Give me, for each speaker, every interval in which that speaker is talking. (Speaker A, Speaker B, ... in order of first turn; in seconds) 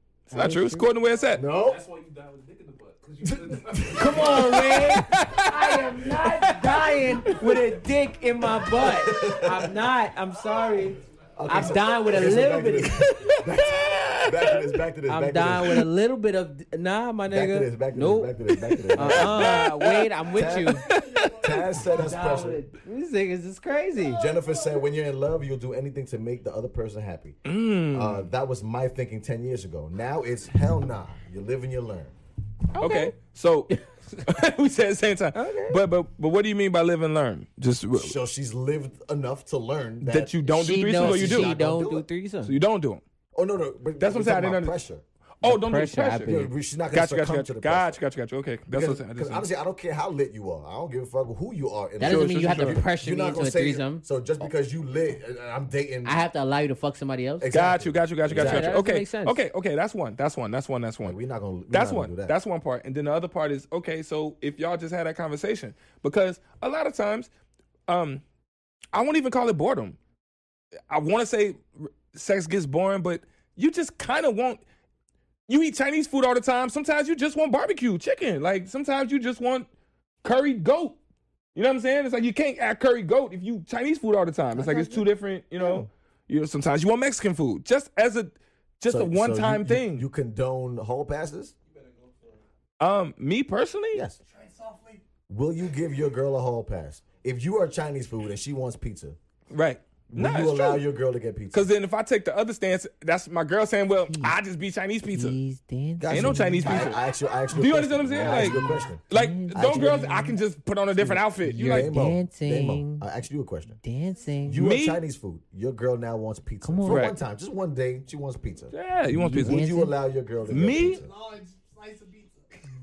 Speaker A: 0.3-1.4, 4.1-7.4, 13.0-14.7, 18.7-20.1, 20.6-21.4, 27.4-28.2, 32.8-38.1, 40.0-41.5, 42.4-43.0, 44.0-44.7, 45.4-49.5, 52.0-52.8, 57.5-61.2, 61.7-67.3, 67.9-68.2, 68.9-70.0, 70.9-74.6, 75.5-79.7, 80.2-81.0, 81.5-90.0, 92.8-94.0, 99.5-100.8, 101.5-105.3, 106.1-111.9, 114.6-115.0, 116.9-117.1, 118.7-119.6, 120.5-121.0
Speaker B: 0.3-0.9, 3.9-13.1, 15.1-18.4, 18.9-20.9, 21.9-24.3, 32.7-33.1, 35.3-35.8, 40.4-42.5, 45.4-46.5, 52.0-54.0, 56.0-57.5, 58.3-59.4, 84.6-84.9, 104.1-104.4, 105.1-106.9, 108.2-110.4, 111.5-113.0, 113.8-114.6, 116.6-117.1, 119.3-119.9
Speaker C: 1.3-1.8, 3.2-4.5, 8.8-9.7, 11.3-15.8, 17.3-19.7, 20.3-22.6, 24.1-27.4, 27.9-32.1, 37.9-42.1, 43.3-45.0, 46.2-48.0, 48.7-56.2, 57.4-58.8, 61.0-62.4, 84.6-84.9, 85.6-85.9, 88.9-91.5, 93.9-94.2, 95.3-99.2, 100.1-101.7, 106.0-110.2, 111.0-113.8, 114.4-121.1
Speaker D: 1.4-4.7, 91.7-92.4
Speaker E: 20.9-21.6, 94.3-95.0, 120.6-122.6